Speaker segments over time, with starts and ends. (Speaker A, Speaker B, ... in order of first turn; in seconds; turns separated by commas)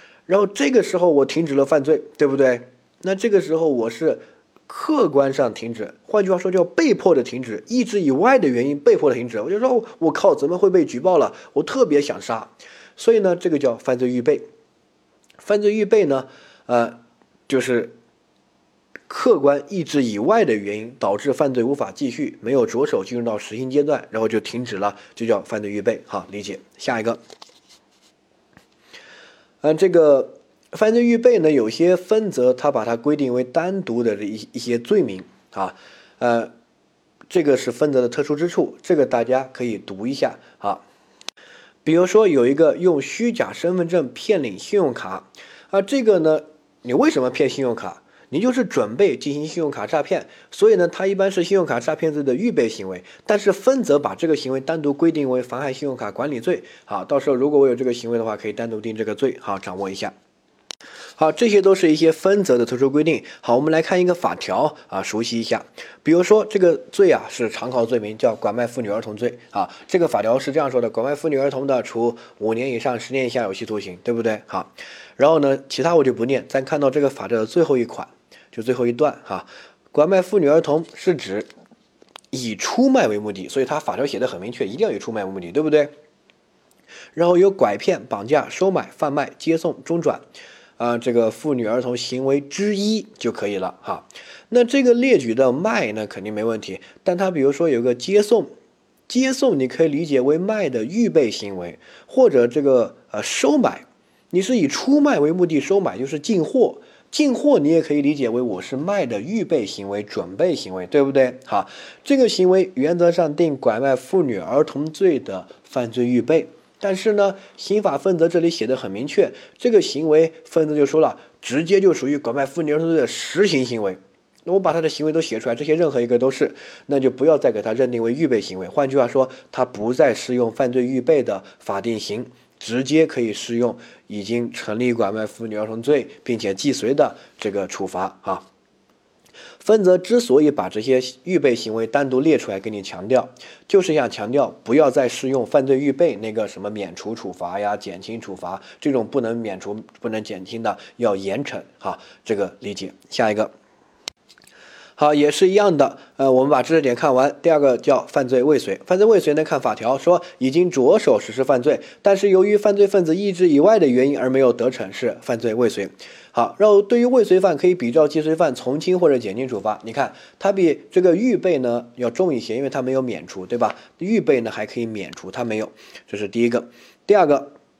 Speaker A: 0.3-14.4, Speaker A: 15.4-17.9, Speaker A: 19.1-27.2, Speaker A: 29.6-36.5, Speaker A: 37.3-40.8, Speaker A: 41.8-60.1, Speaker A: 61.2-81.5, Speaker A: 82.3-85.9, Speaker A: 87.1-90.2, Speaker A: 90.8-98.5, Speaker A: 99.1-138.4, Speaker A: 139.6-153.5, Speaker A: 155.0-177.5